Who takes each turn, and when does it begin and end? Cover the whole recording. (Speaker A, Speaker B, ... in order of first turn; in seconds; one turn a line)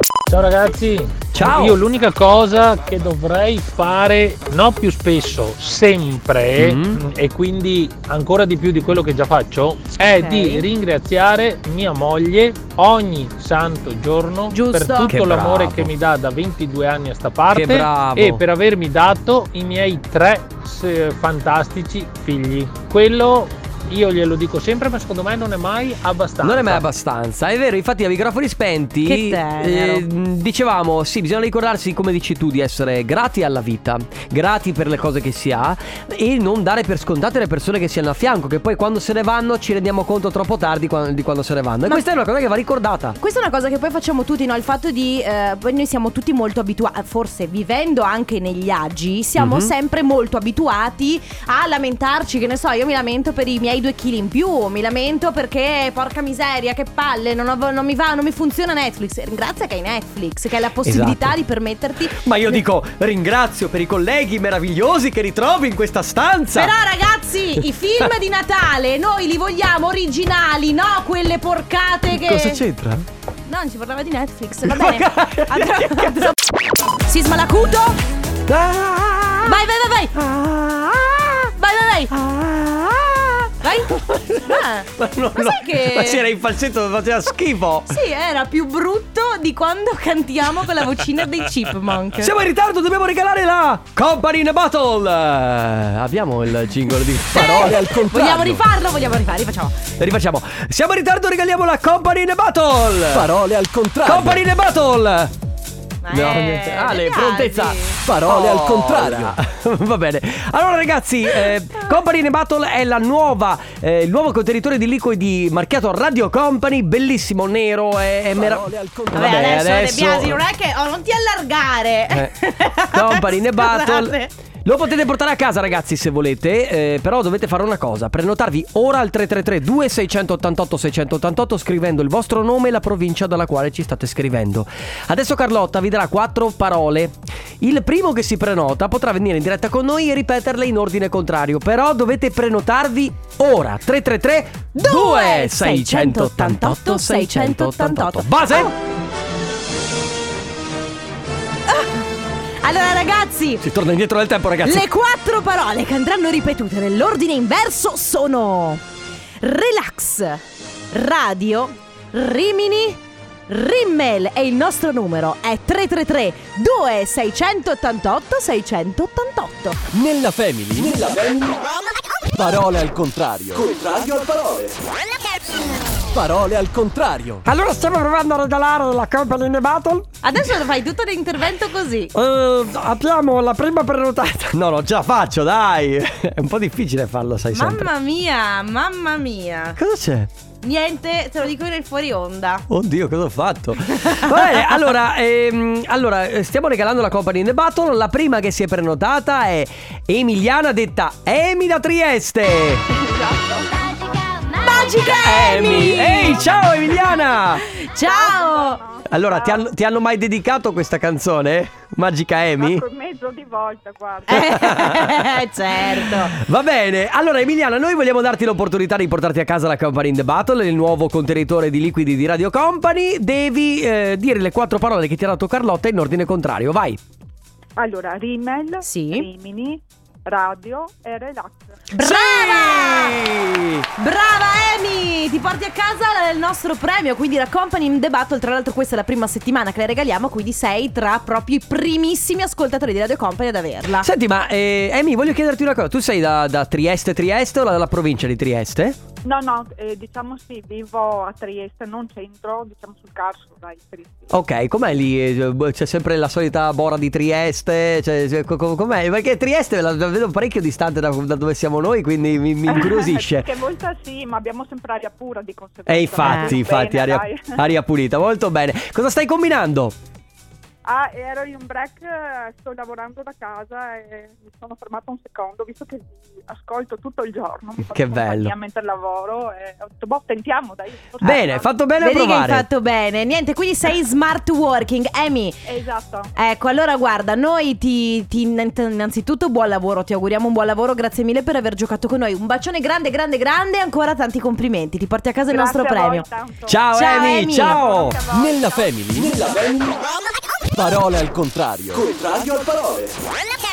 Speaker A: 0.3-26.9
Speaker B: 1.4-1.8
Speaker B: 6.6-7.0
Speaker C: 10.0-10.7
Speaker C: 14.5-15.2
Speaker B: 15.0-15.9
Speaker B: 17.5-18.4
Speaker B: 26.4-43.2
Speaker C: 29.1-30.1
Speaker C: 43.2-62.6
Speaker B: 49.4-49.7
Speaker B: 60.8-61.4
Speaker B: 62.1-66.7
Speaker C: 66.5-72.6
Speaker B: 72.1-73.0
Speaker C: 73.5-76.4
Speaker B: 74.7-76.4
Speaker C: 77.0-78.0
Speaker B: 78.5-79.6
Speaker C: 79.5-80.2
Speaker B: 80.2-81.5
Speaker C: 81.6-82.1
Speaker B: 82.1-87.9
Speaker C: 83.6-86.2
Speaker C: 87.9-92.3
Speaker B: 92.2-97.8
Speaker C: 97.3-99.8
Speaker D: 97.6-98.6
Speaker B: 100.0-103.3
Speaker D: 103.1-104.4
Speaker B: 104.0-105.3
Speaker C: 106.0-108.0
Speaker B: 106.1-120.4
Speaker D: 108.0-109.4
Speaker D: 118.3-119.3
Speaker C: 119.1-124.3
Speaker B: 122.9-148.7
Speaker C: 144.8-148.7
Speaker C: 151.7-152.0
Speaker C: 152.6-153.7
Speaker B: 153.6-154.9
Speaker C: 154.6-158.8
Speaker C: 159.4-169.8
Speaker D: 169.9-171.6
Speaker D: 172.4-174.8
Speaker D: 176.1-177.4
Speaker B: 177.4-180.1
Speaker C: 180.2-182.1
Speaker B: 182.1-187.9
Speaker C: 187.5-189.8
Speaker B: 189.8-190.3
Speaker C: 190.6-192.7
Speaker B: 192.7-202.8
Speaker E: 202.9-204.2
Speaker C: 204.5-206.5
Speaker B: 205.1-207.7
Speaker C: 207.6-208.8
Speaker E: 208.0-209.7
Speaker B: 209.1-212.8
Speaker E: 212.6-214.7
Speaker C: 214.3-216.4
Speaker B: 214.3-215.4
Speaker B: 216.1-227.0
Speaker E: 227.8-231.9
Speaker C: 228.8-229.3
Speaker C: 231.9-233.2
Speaker B: 232.0-233.8
Speaker C: 234.0-244.1
Speaker B: 244.0-249.0
Speaker E: 249.2-254.3
Speaker B: 254.3-263.5
Speaker E: 262.7-267.6
Speaker B: 265.9-269.9
Speaker C: 266.2-266.6
Speaker E: 270.9-281.7
Speaker B: 277.9-278.5
Speaker B: 281.2-282.6
Speaker C: 282.0-285.6
Speaker E: 285.7-286.3
Speaker C: 286.4-296.2
Speaker E: 295.5-298.9
Speaker B: 296.7-298.2
Speaker C: 296.9-297.8
Speaker D: 298.3-300.0
Speaker D: 300.8-303.1